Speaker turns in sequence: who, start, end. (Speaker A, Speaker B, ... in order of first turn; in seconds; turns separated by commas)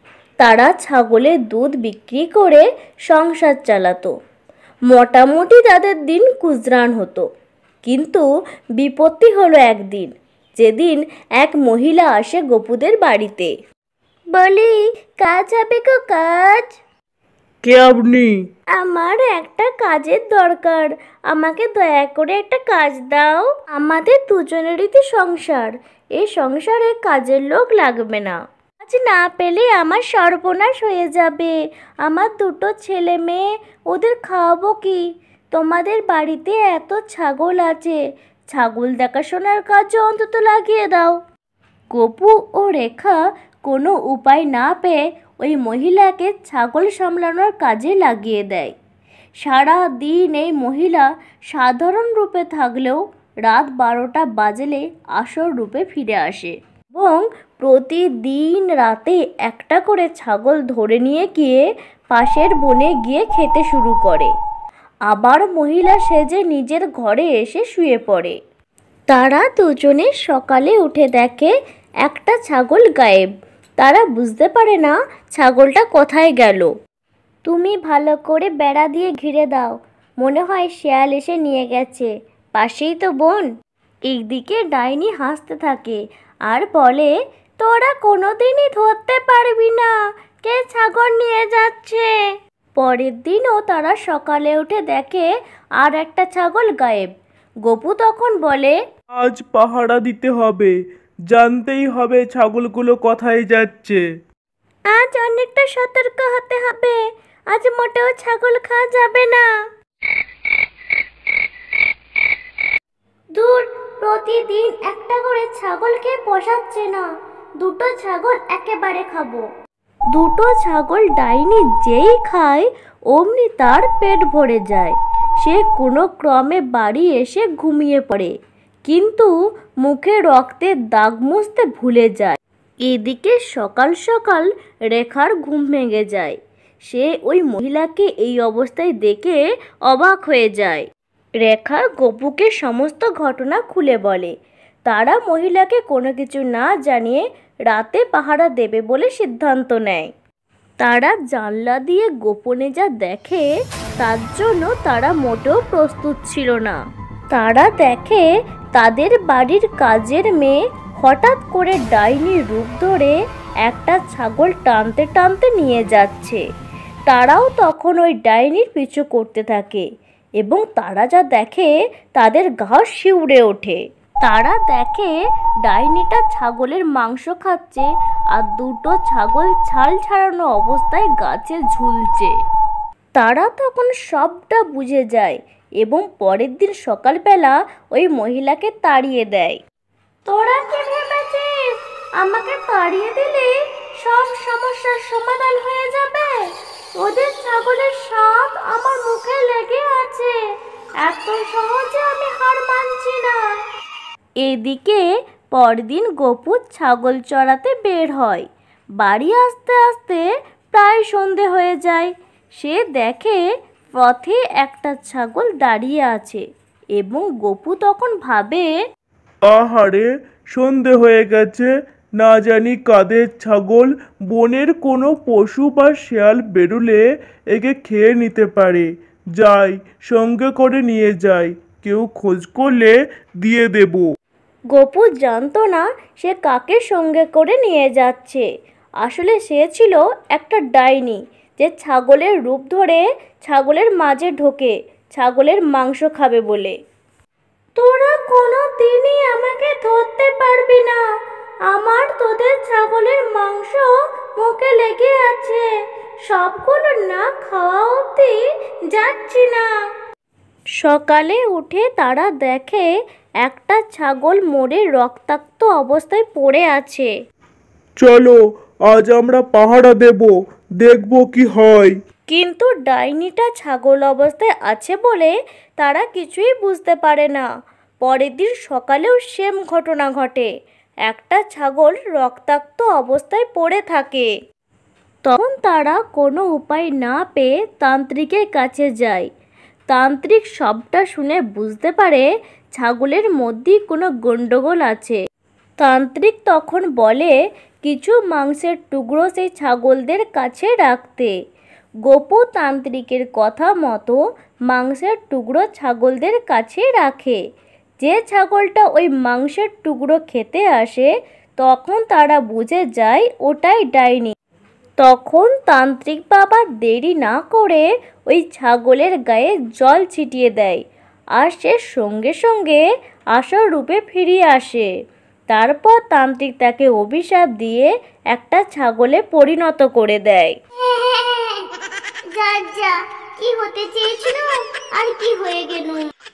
Speaker A: 0.4-4.1, Speaker A: 4.9-7.3, Speaker A: 7.9-8.3, Speaker A: 8.8-13.5, Speaker A: 14.3-16.8, Speaker B: 17.6-18.3, Speaker A: 18.8-38.0, Speaker A: 38.5-41.2, Speaker A: 41.9-48.7, Speaker A: 49.4-64.3, Speaker A: 65.1-68.4, Speaker A: 69.1-71.5, Speaker A: 72.0-76.7, Speaker A: 77.5-83.5, Speaker A: 84.1-92.1, Speaker A: 92.8-95.3, Speaker A: 95.8-97.1, Speaker A: 97.7-98.8, Speaker B: 99.1-100.7, Speaker B: 101.3-104.0, Speaker A: 104.9-107.0, Speaker A: 107.5-109.5, Speaker A: 113.4-117.1, Speaker A: 117.6-119.5, Speaker A: 120.1-128.3, Speaker A: 128.8-129.3, Speaker A: 129.8-136.4, Speaker A: 136.9-140.9, Speaker A: 141.4-144.3, Speaker A: 144.9-150.1, Speaker A: 150.8-153.5, Speaker A: 154.0-156.8, Speaker A: 157.3-166.4, Speaker A: 167.1-169.9, Speaker A: 170.4-175.1, Speaker A: 175.7-182.3, Speaker A: 183.2-189.6, Speaker A: 190.3-191.6, Speaker A: 192.2-200.4, Speaker A: 201.0-203.4, Speaker A: 204.4-208.5, Speaker A: 209.0-213.4, Speaker A: 214.0-216.4, Speaker A: 217.0-218.7, Speaker B: 219.5-227.0, Speaker B: 227.5-234.1, Speaker A: 234.7-238.4, Speaker A: 239.0-246.8, Speaker A: 247.8-251.0, Speaker A: 251.7-255.7, Speaker A: 256.3-259.7, Speaker A: 260.8-262.9, Speaker A: 263.4-267.1, Speaker B: 268.0-268.4, Speaker B: 268.9-271.9, Speaker A: 272.3-277.5, Speaker A: 278.0-280.5, Speaker A: 281.1-284.3, Speaker A: 285.2-289.3, Speaker A: 289.9-295.2, Speaker A: 295.8-301.3, Speaker A: 302.1-307.4, Speaker A: 308.0-314.3, Speaker A: 315.0-320.8, Speaker A: 321.4-322.8, Speaker A: 323.4-324.9, Speaker A: 325.5-330.6, Speaker C: 330.9-331.6, Speaker C: 332.4-332.9, Speaker C: 333.5-334.5, Speaker A: 333.5-333.9, Speaker C: 335.0-336.1, Speaker A: 335.2-335.4